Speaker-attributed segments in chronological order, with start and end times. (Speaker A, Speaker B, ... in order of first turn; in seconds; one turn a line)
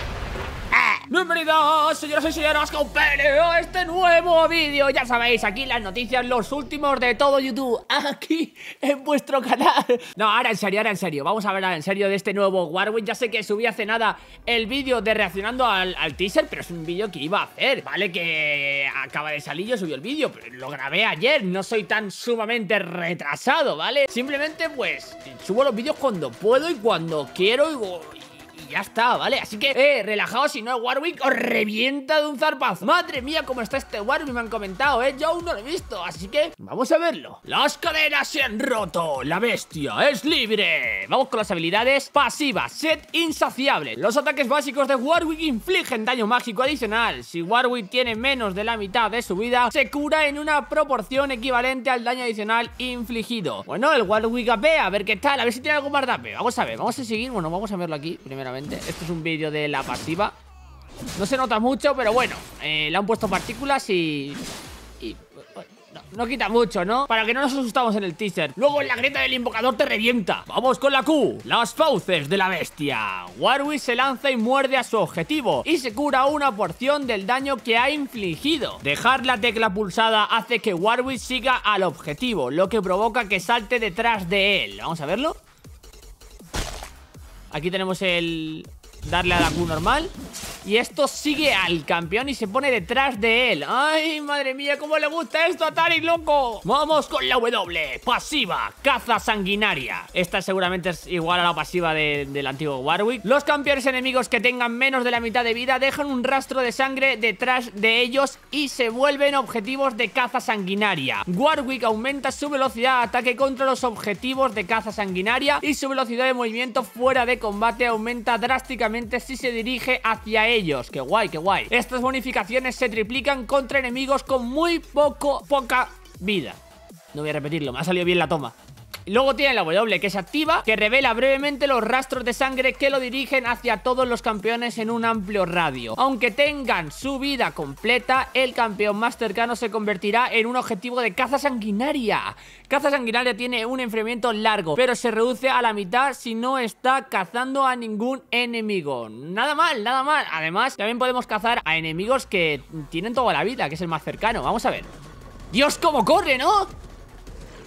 Speaker A: 0.7-60.4
Speaker A: 61.2-64.4
Speaker A: 65.0-85.4
Speaker A: 87.5-90.1
Speaker A: 90.6-126.6
Speaker A: 127.1-128.6
Speaker A: 129.1-154.9
Speaker A: 155.5-156.7